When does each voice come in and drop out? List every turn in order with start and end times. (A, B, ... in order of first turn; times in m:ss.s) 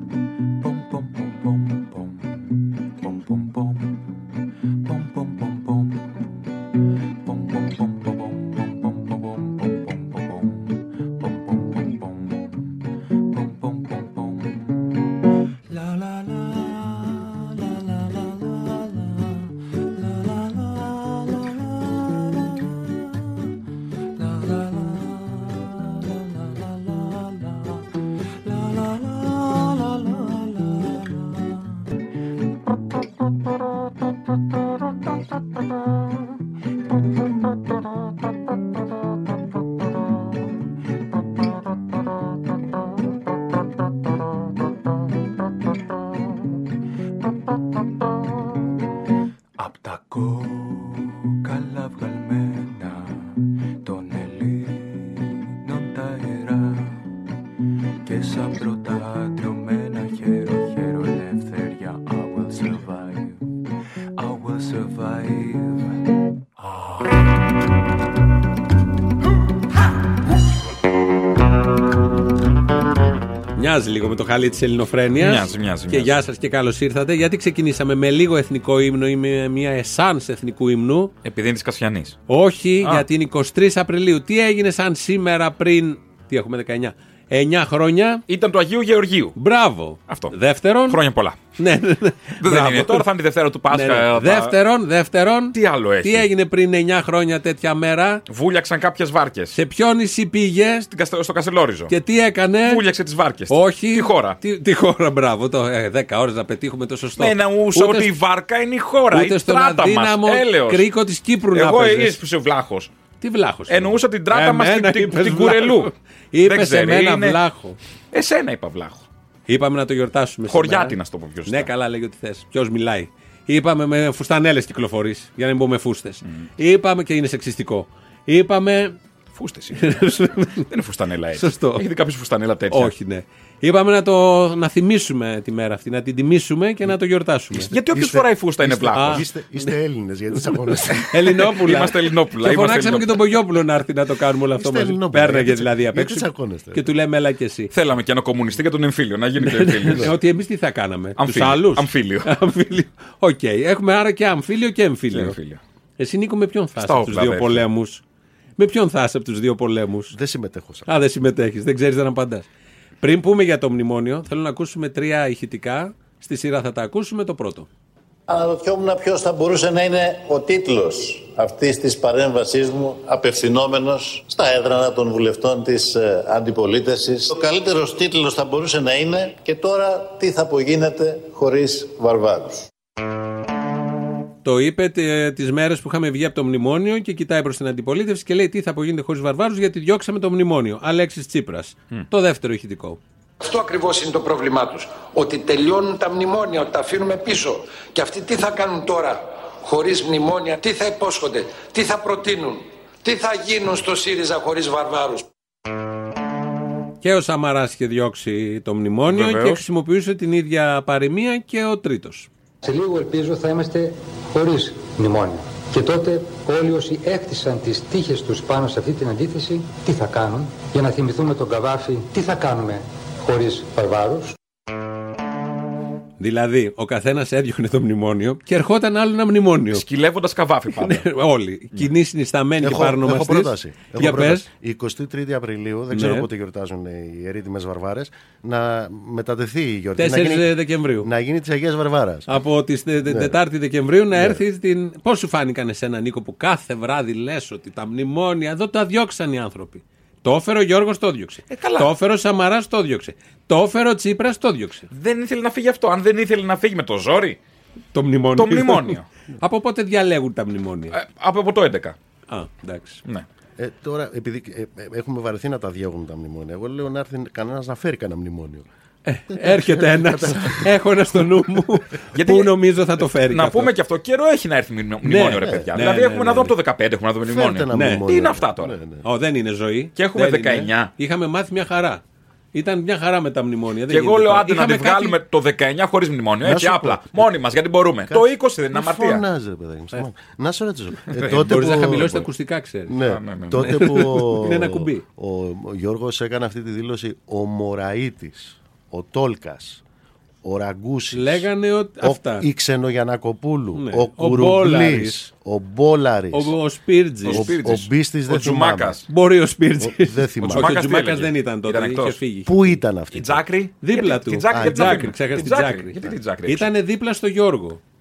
0:00.6-0:04.0 A
0:04.8-0:06.2 A
0:07.2-0:12.5 A
0:13.3-0:14.6 A
0:49.6-0:57.1 A
0:58.0-1:03.4 A
1:04.2-1:06.0 A
1:13.6-1:21.1 B
1:15.2-1:16.2 C
1:21.2-1:22.2 C
1:22.3-1:28.2 B
1:28.3-1:29.4 C
1:29.4-1:31.0 B
1:30.1-1:30.3 C
1:30.9-1:31.4 C
1:31.6-1:33.0 B
1:32.4-1:34.5 C
1:33.7-1:38.2 B
1:35.5-1:36.3 C
1:38.3-1:39.6 C
1:39.5-1:40.9 B
1:40.9-1:41.9 C
1:41.9-1:42.8 B
1:42.6-1:44.4 C
1:43.5-1:48.1 B
1:47.2-1:50.9 C
1:49.1-1:52.2 B
1:51.5-1:52.9 C
1:53.2-1:57.8 B
1:53.7-1:55.9 C
1:56.4-1:57.4 C
1:58.1-1:59.0 C
1:59.5-2:09.0 B
2:00.5-2:01.7 C
2:09.3-2:10.1 C
2:09.7-2:10.7 B
2:10.7-2:12.9 C
2:11.3-2:11.9 B
2:12.7-2:17.7 B
2:17.7-2:19.2 C
2:17.9-2:21.2 D
2:18.9-2:19.2 B
2:21.1-2:27.7 B
2:21.6-2:23.2 C
2:24.6-2:26.8 D
2:27.7-2:30.1 C
2:29.4-2:35.4 B
2:31.2-2:32.3 C
2:35.1-2:35.6 C
2:36.0-2:38.0 B
2:36.8-2:37.6 C
2:38.6-2:40.1 B
2:40.1-2:40.9 D
2:40.9-2:42.5 B
2:43.0-2:47.7 B
2:48.3-3:02.6 E
3:04.4-3:13.0 B
3:13.4-3:25.3 F
3:27.0-3:32.3 B
3:29.1-3:29.6 C
3:32.6-3:44.3 G
3:46.2-3:49.8 B
3:49.7-3:51.0 C
3:50.8-3:54.4 B
3:52.6-4:02.3 D
3:55.9-3:56.3 B
4:00.0-4:01.1 B
4:02.3-4:14.9 B
4:03.0-4:03.3 D
4:04.1-4:04.4 D
4:11.5-4:11.9 C
4:14.9-4:17.4 C
4:17.9-4:21.0 B
4:18.4-4:19.0 C
4:20.9-4:22.0 C
4:22.3-4:23.0 B
4:23.6-4:28.6 D
4:29.0-4:33.7 B
4:29.3-4:30.7 D
4:32.1-4:32.5 C
4:33.3-4:38.8 C
4:35.0-4:36.6 B
4:35.4-4:35.7 D
4:37.2-4:39.0 D
4:37.7-4:38.0 B
4:39.0-4:42.0 B
4:40.0-4:40.9 C
4:42.5-4:45.2 B
4:43.9-4:49.2 C
4:46.4-4:47.3 D
4:48.1-4:52.3 D
4:51.2-4:53.0 B
4:52.9-4:59.8 D
4:53.0-4:53.7 C
4:53.5-4:55.0 B
5:00.4-5:01.5 D
5:01.1-5:02.4 B
5:02.0-5:06.5 D
5:03.7-5:05.2 B
5:06.3-5:07.5 B
5:07.2-5:09.0 C
5:07.3-5:09.0 D
5:09.1-5:12.8 B
5:09.8-5:10.8 D
5:10.4-5:12.2 C
5:12.4-5:13.4 D
5:13.1-5:16.7 C
5:13.8-5:17.8 B
5:14.5-5:15.1 D